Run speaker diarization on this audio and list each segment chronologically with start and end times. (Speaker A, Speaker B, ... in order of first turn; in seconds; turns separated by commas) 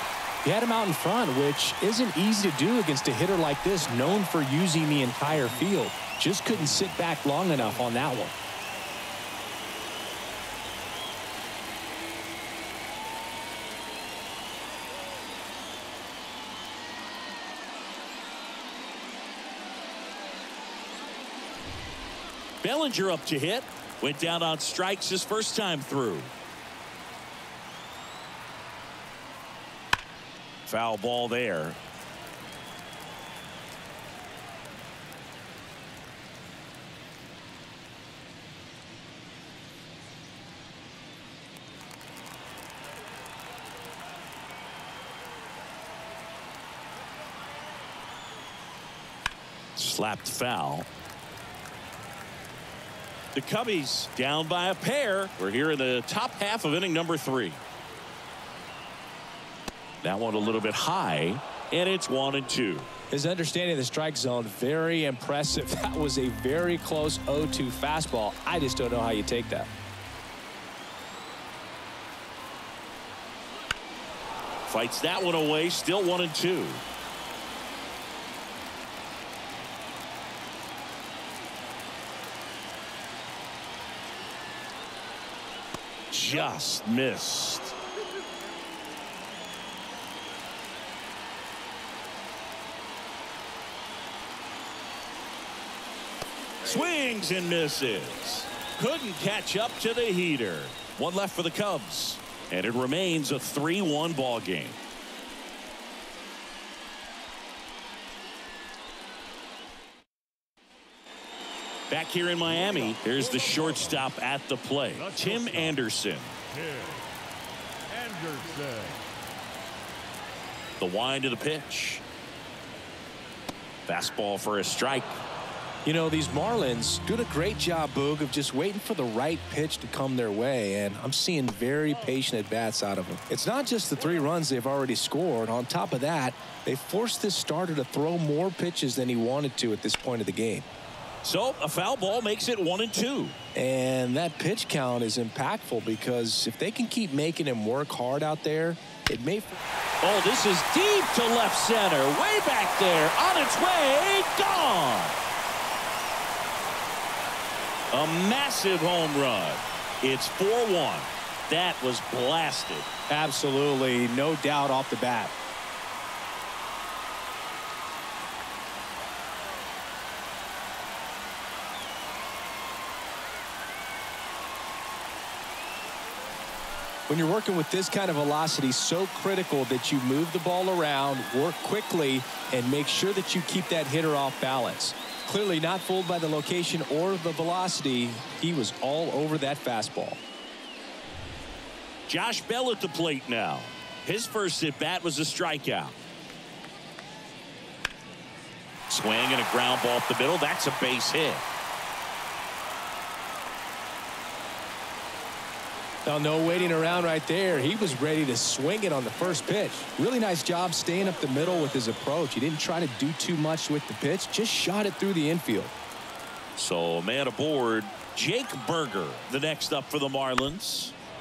Speaker A: 0.4-8.3, Speaker B: 5.3-5.6, Speaker B: 6.5-6.9, Speaker C: 22.6-26.3, Speaker C: 30.7-31.8, Speaker C: 49.8-50.9, Speaker C: 53.3-57.6, Speaker C: 60.0-62.9, Speaker A: 63.1-69.7, Speaker C: 74.7-76.8, Speaker C: 86.1-87.7, Speaker C: 96.6-104.8, Speaker C: 111.9-116.3, Speaker B: 112.5-114.0, Speaker B: 114.9-115.8, Speaker B: 116.5-117.1, Speaker B: 117.9-119.0, Speaker C: 120.8-122.0, Speaker C: 123.9-125.2, Speaker A: 125.8-140.7, Speaker C: 141.2-143.3, Speaker A: 143.5-149.6, Speaker C: 150.0-155.2, Speaker C: 157.9-162.9, Speaker A: 163.1-165.3, Speaker A: 177.1-190.2, Speaker C: 192.1-196.0, Speaker C: 198.9-201.4, Speaker A: 206.1-215.7, Speaker C: 216.6-220.9